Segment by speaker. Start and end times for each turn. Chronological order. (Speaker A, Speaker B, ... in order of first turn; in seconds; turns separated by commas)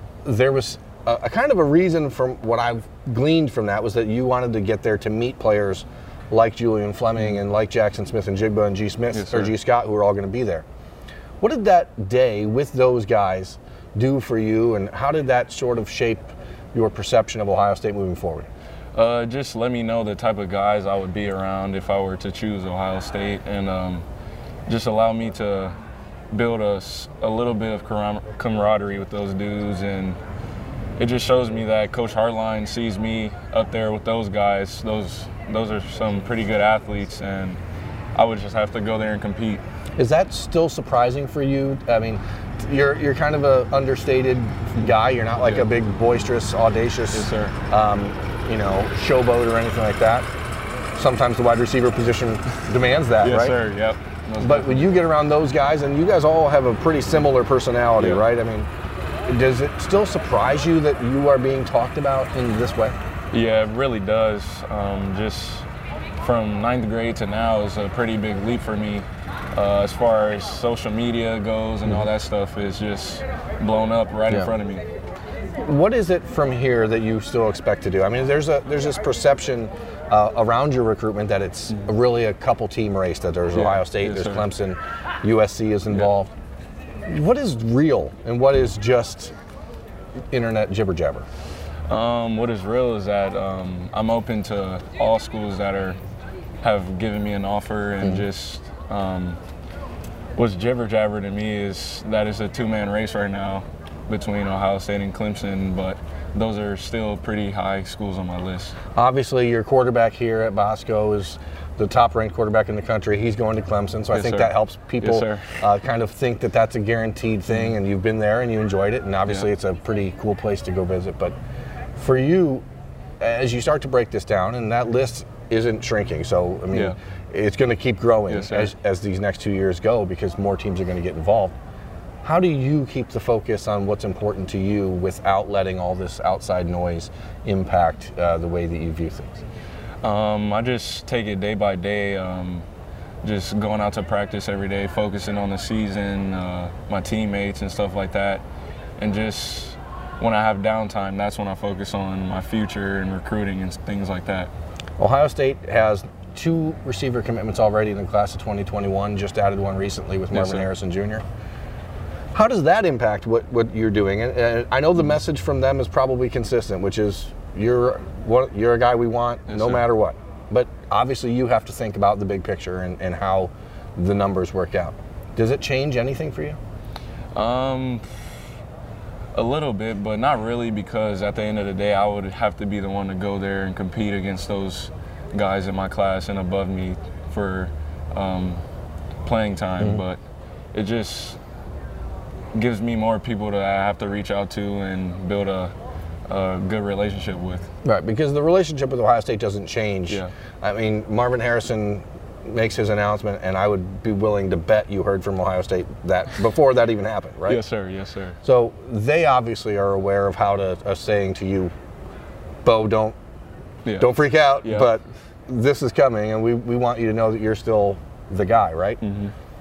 Speaker A: 0.2-10.7, Speaker B: 9.1-9.5, Speaker A: 11.4-18.5, Speaker B: 18.9-24.0, Speaker B: 24.7-25.8, Speaker B: 26.3-30.2, Speaker B: 31.0-37.6, Speaker B: 38.1-39.6, Speaker A: 40.0-50.3, Speaker B: 45.4-45.7, Speaker B: 47.1-47.5, Speaker A: 51.0-53.6, Speaker B: 53.2-55.0, Speaker A: 54.4-58.7, Speaker B: 58.0-58.2, Speaker A: 59.3-63.0, Speaker B: 63.3-65.7, Speaker B: 66.2-74.8, Speaker A: 75.6-86.3, Speaker B: 83.5-84.5, Speaker A: 87.1-89.3, Speaker A: 90.3-91.3, Speaker B: 91.9-96.0, Speaker B: 96.6-99.4, Speaker B: 100.3-108.8, Speaker A: 108.9-121.3, Speaker B: 114.1-115.6, Speaker B: 117.5-117.8, Speaker A: 122.0-122.6, Speaker A: 123.2-131.5, Speaker B: 128.3-128.7, Speaker A: 132.2-139.4, Speaker B: 140.0-142.7, Speaker B: 143.2-148.4, Speaker B: 149.0-154.5, Speaker A: 155.0-161.2, Speaker B: 160.3-160.7, Speaker A: 162.3-176.6, Speaker B: 169.5-169.8, Speaker B: 177.3-178.1, Speaker B: 179.3-188.6, Speaker B: 189.2-190.2, Speaker B: 190.7-191.4, Speaker B: 192.5-195.7, Speaker B: 196.3-197.7, Speaker A: 197.8-207.6, Speaker B: 207.5-208.4, Speaker A: 208.4-211.7, Speaker A: 212.6-213.2, Speaker B: 213.8-214.1, Speaker A: 214.0-219.0, Speaker B: 214.6-214.9, Speaker B: 219.0-219.3